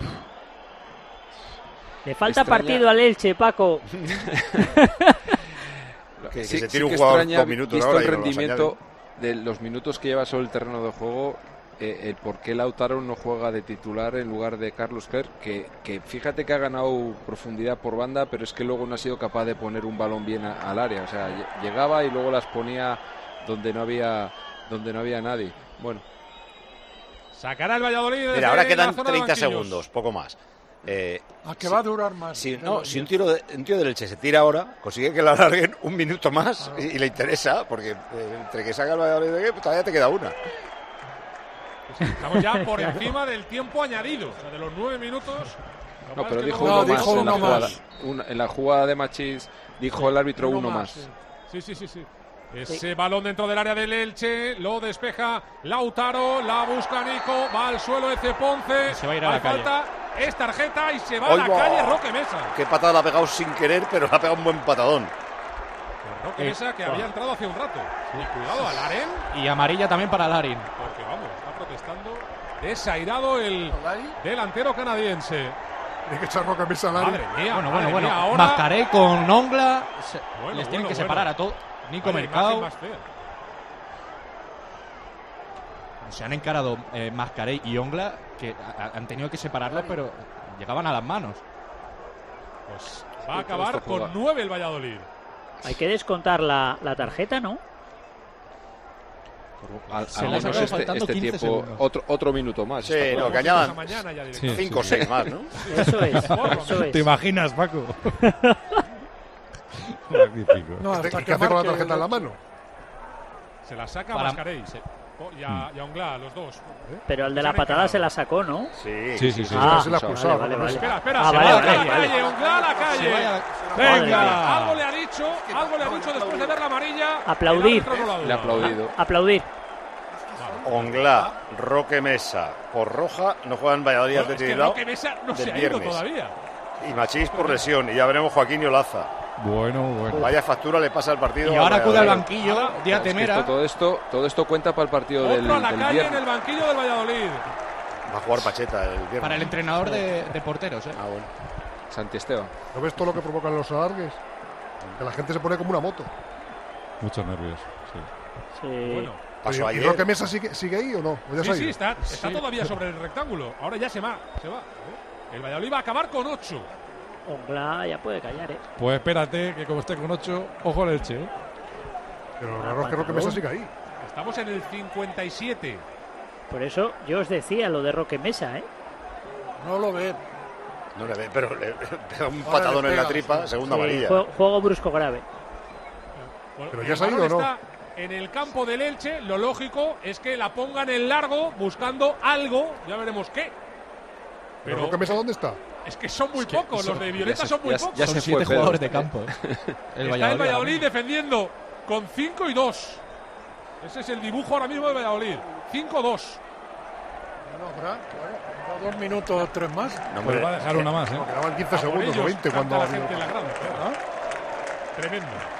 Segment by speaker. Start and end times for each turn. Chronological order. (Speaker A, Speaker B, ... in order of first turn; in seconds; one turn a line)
Speaker A: 2.0-3.9
Speaker B: 2.2-2.9
Speaker A: 4.7-5.1
Speaker B: 6.2-26.0
Speaker C: 6.3-8.7
Speaker D: 27.3-29.8
Speaker C: 28.3-31.8
Speaker E: 31.4-33.1
Speaker C: 32.3-40.3
Speaker E: 36.6-36.9
Speaker D: 41.9-45.5
Speaker A: 42.5-43.0
Speaker D: 46.1-47.8
Speaker B: 46.1-51.0
Speaker E: 46.6-47.8
Speaker E: 49.9-51.1
Speaker D: 51.5-62.5
Speaker F: 58.9-59.7
Speaker C: 61.2-65.1
Speaker D: 66.0-69.2
Speaker F: 66.4-67.1
Speaker F: 69.3-70.7
Speaker D: 70.8-75.6
Speaker G: 76.0-77.2
Speaker D: 76.9-78.7
Speaker F: 77.5-82.7
Speaker D: 80.3-81.4
Speaker D: 82.0-83.1
Speaker F: 86.0-91.4
Speaker D: 92.7-95.1
Speaker B: 93.2-94.1
Speaker A: 95.6-97.6
Speaker B: 99.6-103.6
Speaker F: 100.1-101.8
Speaker D: 100.2-100.8
Speaker C: 102.8-105.5
Speaker D: 103.0-105.0
Speaker H: 104.3-108.2
Speaker D: 105.6-106.9
Speaker A: 105.7-107.1
Speaker A: 108.2-108.8
Speaker H: 110.1-111.1
Speaker E: 110.8-112.3
Speaker G: 111.0-112.4
Speaker D: 113.6-116.6
Speaker F: 114.1-114.8
Speaker A: 117.1-118.7
Speaker D: 117.3-118.1
Speaker C: 118.7-119.5
Speaker H: 119.2-119.8
Speaker B: 119.3-120.1
Speaker A: 119.5-122.2
Speaker G: 119.6-120.9
Speaker D: 120.7-128.8
Speaker F: 121.2-122.1
Speaker E: 122.2-122.9
Speaker F: 122.8-124.8
Speaker A: 123.8-124.4
Speaker H: 125.8-126.1
Speaker A: 127.2-127.9
Speaker B: 128.2-129.0
Speaker A: 128.8-129.5
Speaker D: 130.4-130.7
Speaker C: 130.6-134.8
Speaker H: 130.7-131.0
Speaker D: 134.1-136.3
Speaker C: 135.3-136.0
Speaker C: 136.8-139.1
Speaker D: 137.1-137.7
Speaker H: 139.4-140.3
Speaker C: 140.1-142.3
Speaker F: 141.4-143.5
Speaker D: 142.4-142.7
Speaker B: 142.8-146.2
Speaker D: 145.2-147.5
Speaker C: 148.1-149.6
Speaker F: 149.2-151.0
Speaker C: 150.9-151.3
Speaker B: 151.9-152.5
Speaker G: 152.7-154.2
Speaker G: 155.0-156.1
Speaker H: 157.0-158.1
Speaker A: 158.6-159.1
Speaker D: 158.8-159.2
Speaker C: 159.4-160.1
Speaker G: 159.4-161.8
Speaker D: 161.4-164.7
Speaker H: 162.0-162.7
Speaker D: 165.3-166.7
Speaker A: 167.2-168.6
Speaker H: 168.8-171.3
Speaker G: 172.4-173.7
Speaker A: 172.6-173.4
Speaker D: 174.0-175.8
Speaker A: 176.5-178.7
Speaker E: 179.6-180.2
Speaker C: 180.9-184.2
Speaker E: 182.4-183.5
Speaker A: 183.6-185.2
Speaker D: 186.6-193.5
Speaker G: 186.7-187.5
Speaker G: 194.6-195.6
Speaker D: 194.6-195.2
Speaker D: 195.8-198.3
Speaker B: 196.4-199.8
Speaker F: 197.9-199.3
Speaker F: 199.9-200.8
Speaker D: 200.0-203.0
Speaker D: 203.8-206.4
Speaker E: 207.4-210.0
Speaker C: 210.1-210.5
Speaker H: 210.2-211.3
Speaker G: 210.7-213.4
Speaker D: 211.7-213.9
Speaker D: 214.9-215.5